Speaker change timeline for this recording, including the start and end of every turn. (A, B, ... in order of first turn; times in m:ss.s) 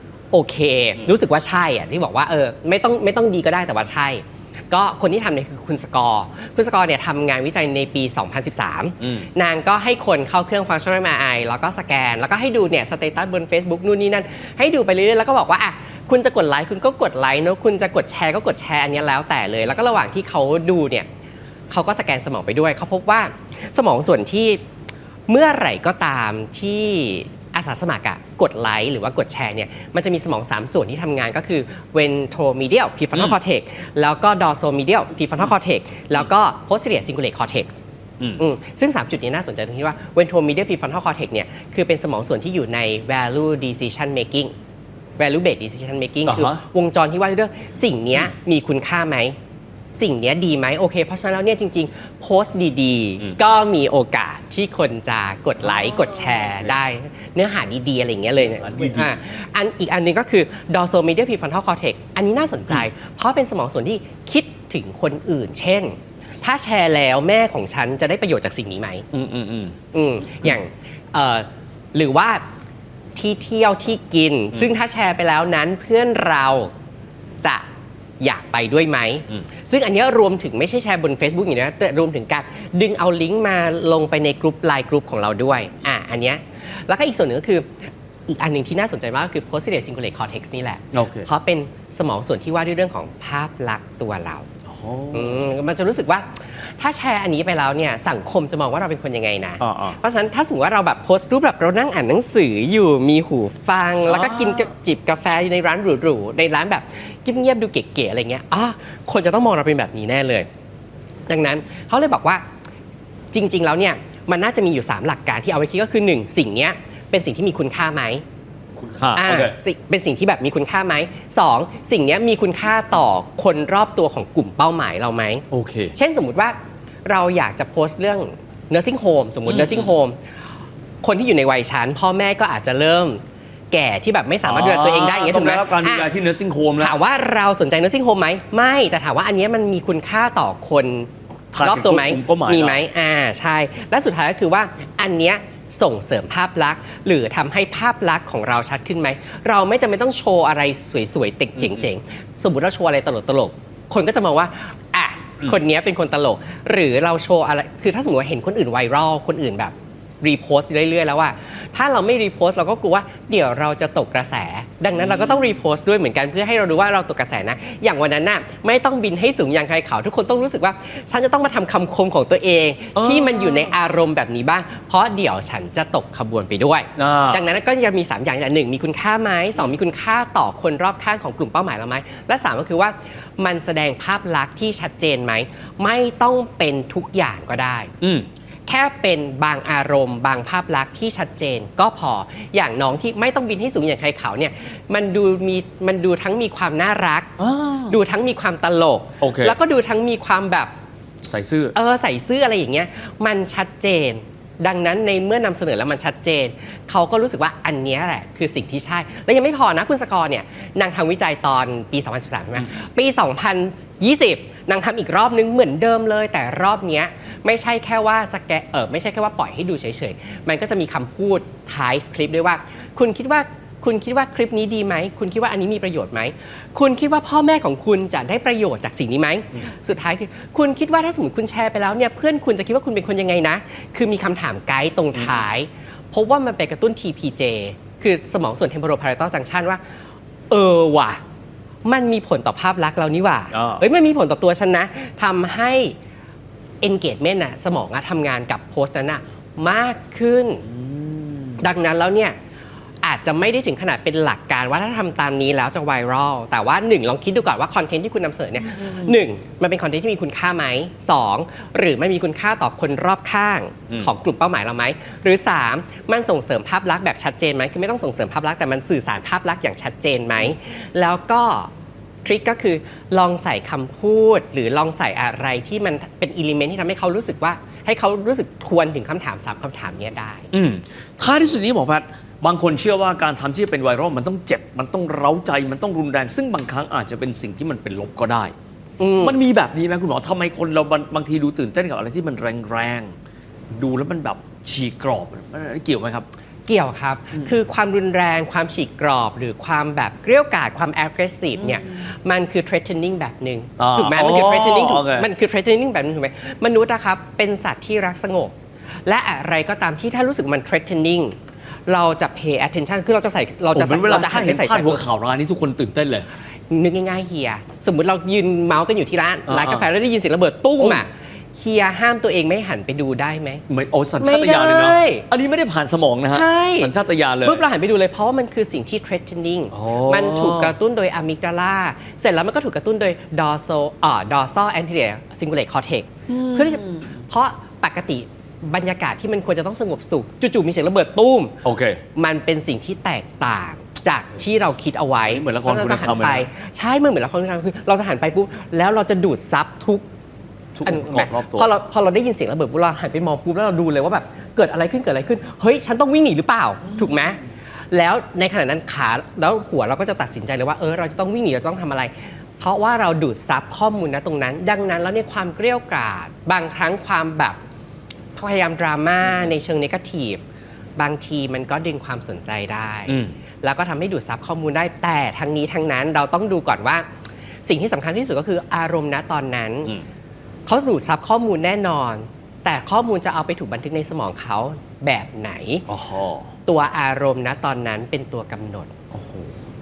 0:00.3-0:21.1 A
0:09.0-0:09.3 B
0:21.7-0:24.6 A
0:25.3-0:37.8 A
0:38.4-0:44.5 A
0:45.2-0:49.3 A
0:46.2-0:46.6 B
0:49.9-1:09.0 A
0:55.7-0:56.5 B
0:58.6-0:59.1 B
1:09.1-1:09.7 B
1:09.9-1:12.4 A
1:13.1-1:16.7 A
1:18.2-1:34.5 A
1:30.9-1:31.3 B
1:34.7-1:35.5 B
1:35.1-1:50.5 A
1:39.6-1:40.0 B
1:44.1-1:44.7 B
1:51.3-1:52.4 A
1:53.3-1:58.2 A
1:58.8-1:59.6 B
1:59.1-2:10.2 A
2:05.5-2:05.9 B
2:09.4-2:09.9 B
2:11.0-2:16.1 A
2:14.4-2:17.0 B
2:16.8-3:07.9 A
2:21.5-2:22.8 B
2:45.0-2:45.3 B
2:52.9-2:53.7 B
2:57.0-2:57.4 B
3:08.0-3:08.3 B
3:08.6-3:17.3 A
3:17.4-3:18.0 B
3:17.9-3:20.7 A
3:19.2-3:19.6 B
3:21.2-3:21.7 B
3:21.7-3:59.8 A
4:00.5-4:01.2 A
4:01.8-4:06.0 A
4:03.5-4:03.8 B
4:06.8-4:10.7 A
4:10.7-4:11.6 B
4:11.6-4:12.4 A
4:13.0-4:31.7 A
4:18.7-4:19.1 B
4:32.2-4:40.5 A
4:40.5-4:48.5 B
4:49.0-4:49.4 A
4:49.2-4:53.1 B
4:53.7-4:56.3 B
4:56.6-5:08.5 A
5:01.6-5:02.0 B
5:03.8-5:05.3 B
5:09.0-5:15.0 A
5:13.7-5:16.3 B
5:16.7-5:23.6 A
5:19.5-5:19.9 B
5:23.7-5:27.6 B
5:24.2-5:25.2 A
5:26.3-5:26.9 A
5:27.4-5:41.6 A
5:29.7-5:30.7 B
5:36.3-5:37.2 B
5:41.6-5:42.0 B
5:42.1-5:50.0 A
5:45.3-5:46.5 B
5:50.7-5:51.7 B
5:50.8-5:57.4 A
5:57.9-6:07.6 A
6:08.4-6:10.4 A
6:11.0-6:17.1 A
6:13.1-6:13.3 B
6:17.6-6:19.9 A
6:20.6-6:25.8 A
6:25.9-6:26.5 B
6:26.6-6:28.9 A
6:29.1-6:29.5 B